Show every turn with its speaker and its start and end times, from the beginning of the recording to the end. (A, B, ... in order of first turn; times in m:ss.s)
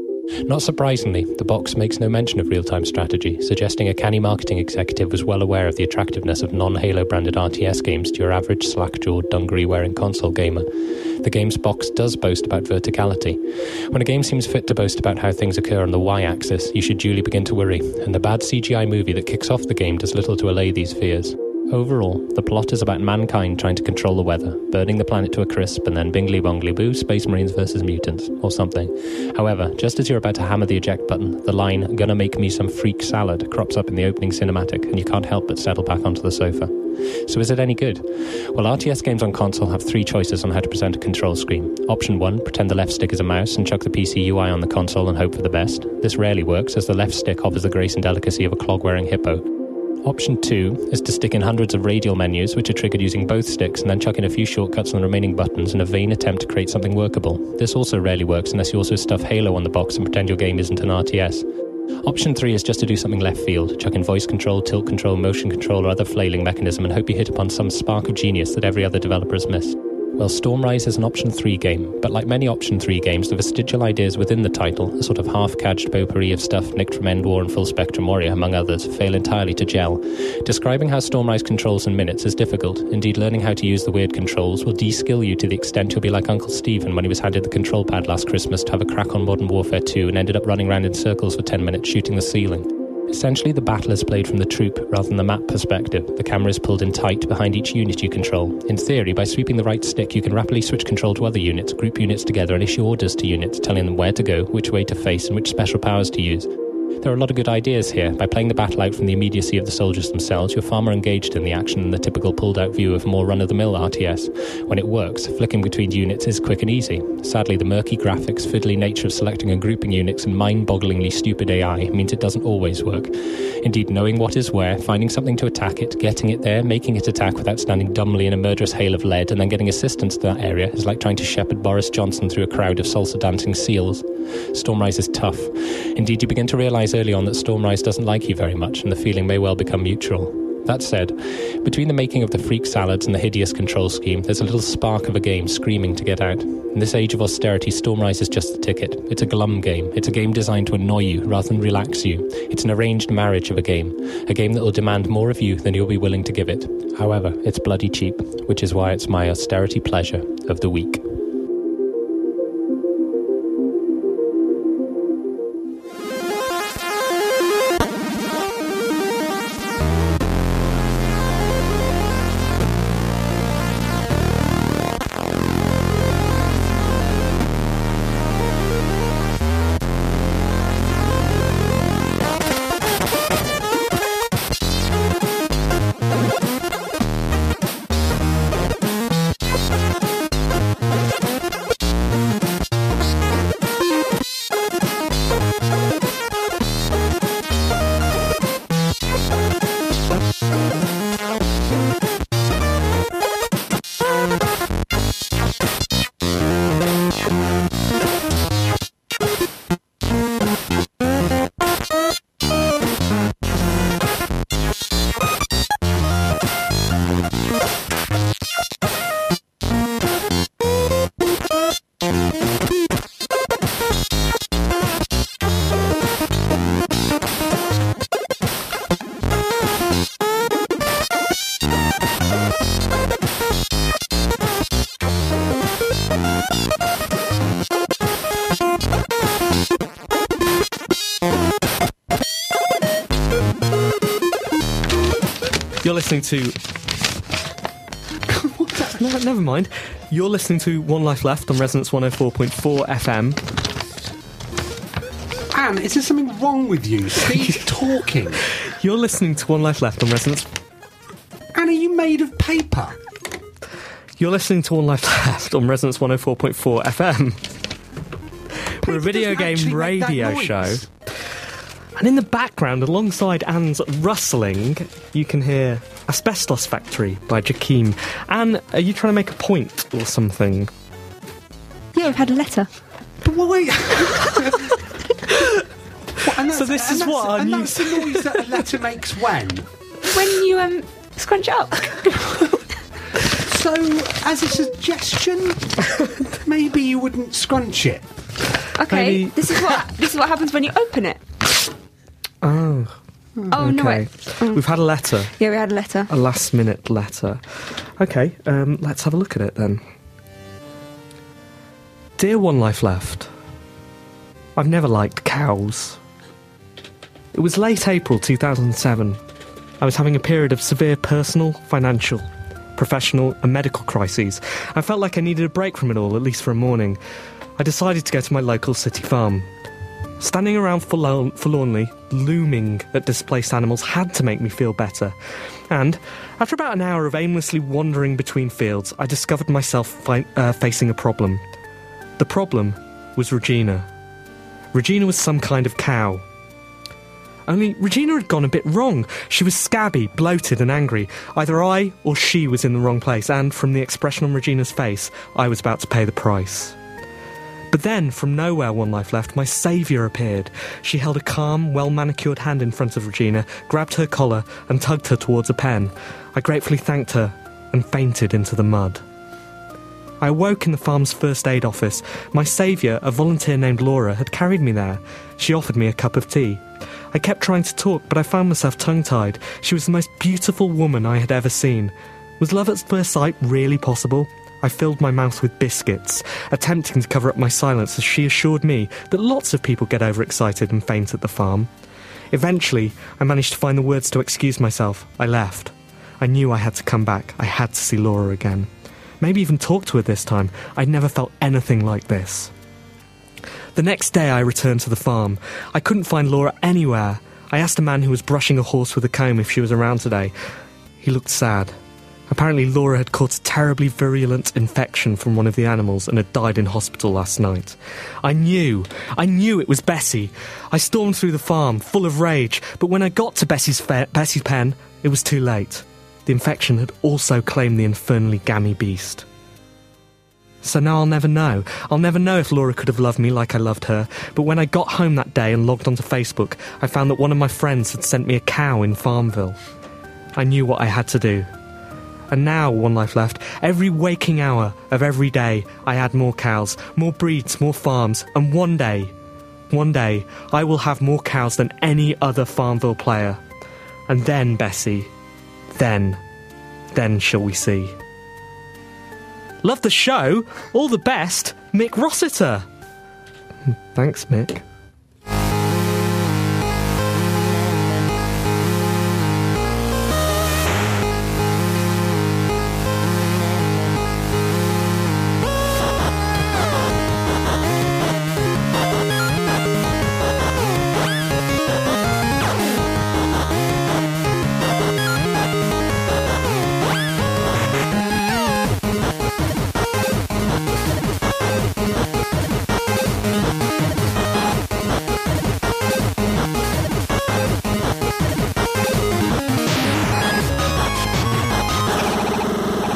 0:00.4-0:49.5 A
0:50.0-1:01.4 A
1:02.0-1:46.5 A
1:47.0-2:41.0 A
4:05.8-4:06.6 B
4:08.3-4:09.2 C
4:09.0-4:13.4 B
4:15.5-4:18.4 C
4:18.6-4:20.5 B
4:21.5-4:23.0 C
4:24.2-4:27.4 B
4:28.8-4:30.8 B
4:28.8-4:30.9 C
4:32.0-4:40.7 B
4:41.9-4:42.7 D
4:43.2-4:44.8 C
4:45.3-4:45.6 B
4:46.2-4:49.7 C
4:46.5-4:48.4 B
4:50.1-4:52.4 D
4:53.3-4:58.1 C
4:58.8-5:01.2 D
4:58.9-4:59.4 B
5:02.4-5:02.9 B
5:03.5-5:04.6 D
5:03.5-5:05.3 B
5:05.4-5:06.1 D
5:06.1-5:07.4 B
5:08.0-5:09.8 B
5:12.2-5:13.3 B
5:14.6-5:16.0 B
5:17.3-5:19.2 B
5:19.8-5:27.0 B
5:27.6-5:29.5 B
5:30.2-5:35.1 B
5:35.7-5:41.4 B
5:42.2-5:43.9 B
5:44.7-5:46.2 B
5:47.5-5:56.8 B
5:57.7-6:09.0 B
6:10.2-6:31.7 B
6:32.3-6:38.7 B
6:39.2-6:42.5 B
6:43.7-6:50.3 B
6:51.0-6:51.7 B
6:52.3-7:09.2 B
7:10.6-7:19.6 B
7:20.4-7:21.5 B
7:22.3-7:29.1 B
7:29.7-7:33.4 B
7:34.1-7:35.1 B
7:35.7-7:36.2 B
7:36.9-7:38.0 B
7:39.6-7:42.6 B
7:43.7-7:44.6 B